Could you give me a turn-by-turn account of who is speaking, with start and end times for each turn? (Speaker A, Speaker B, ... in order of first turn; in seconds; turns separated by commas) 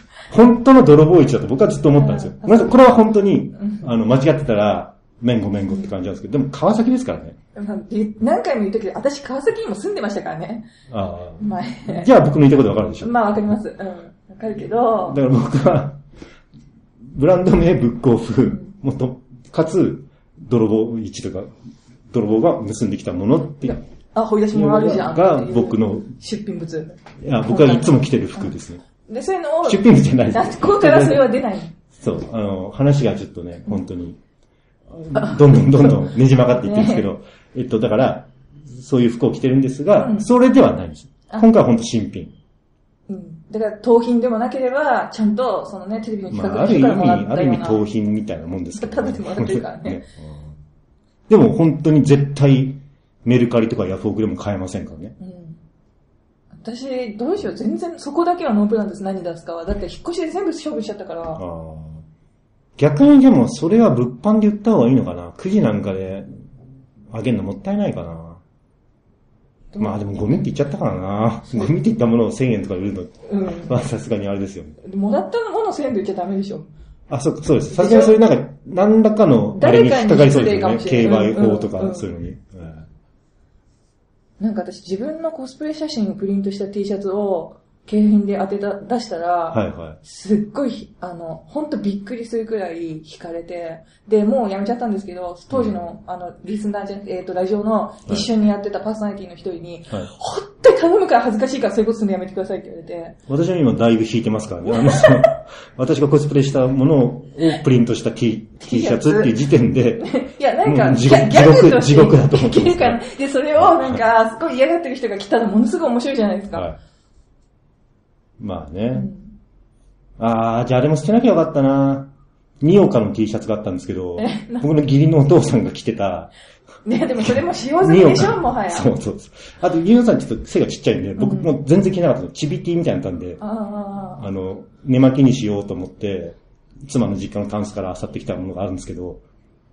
Speaker A: 0.2-7.4, Speaker B: 1.9-2.8, Speaker B: 3.5-3.9, Speaker B: 7.5-10.7, Speaker A: 10.9-13.1, Speaker B: 11.4-12.1, Speaker B: 13.0-15.2, Speaker A: 15.0-16.0, Speaker A: 17.1-21.5, Speaker A: 22.1-23.8, Speaker B: 23.6-28.5, Speaker A: 24.5-26.2, Speaker A: 27.2-28.8, Speaker B: 29.1-31.7, Speaker A: 29.6-31.3, Speaker A: 31.9-34.2, Speaker A: 34.9-42.3, Speaker B: 35.2-35.9, Speaker B: 36.6-37.0, Speaker B: 40.0-40.3, Speaker B: 43.1-47.8, Speaker A: 46.3-50.5, Speaker B: 48.7-50.0, Speaker A: 51.3-55.1, Speaker B: 55.2-55.6, Speaker B: 56.5-61.4, Speaker A: 61.4-62.0, Speaker A: 62.8-66.3, Speaker A: 67.1-68.4, Speaker B: 69.7-70.5, Speaker A: 69.8-74.8, Speaker B: 73.3-73.8, Speaker B: 74.8-76.7, Speaker A: 77.1-82.9, Speaker B: 77.7-78.2, Speaker B: 79.5-82.1, Speaker B: 84.4-103.2, Speaker A: 89.5-90.0, Speaker A: 95.5-95.8, Speaker A: 103.3-110.1, Speaker B: 104.7-105.3, Speaker B: 108.6-109.3, Speaker B: 110.0-116.7, Speaker A: 110.6-113.0, Speaker A: 113.6-114.0, Speaker A: 118.4-119.1, Speaker B: 118.9-119.3, Speaker A: 120.2-126.3, Speaker B: 124.2-124.7, Speaker B: 126.8-128.9, Speaker A: 127.2-133.4, Speaker B: 131.2-131.5, Speaker B: 133.4-134.2, Speaker A: 134.2-139.2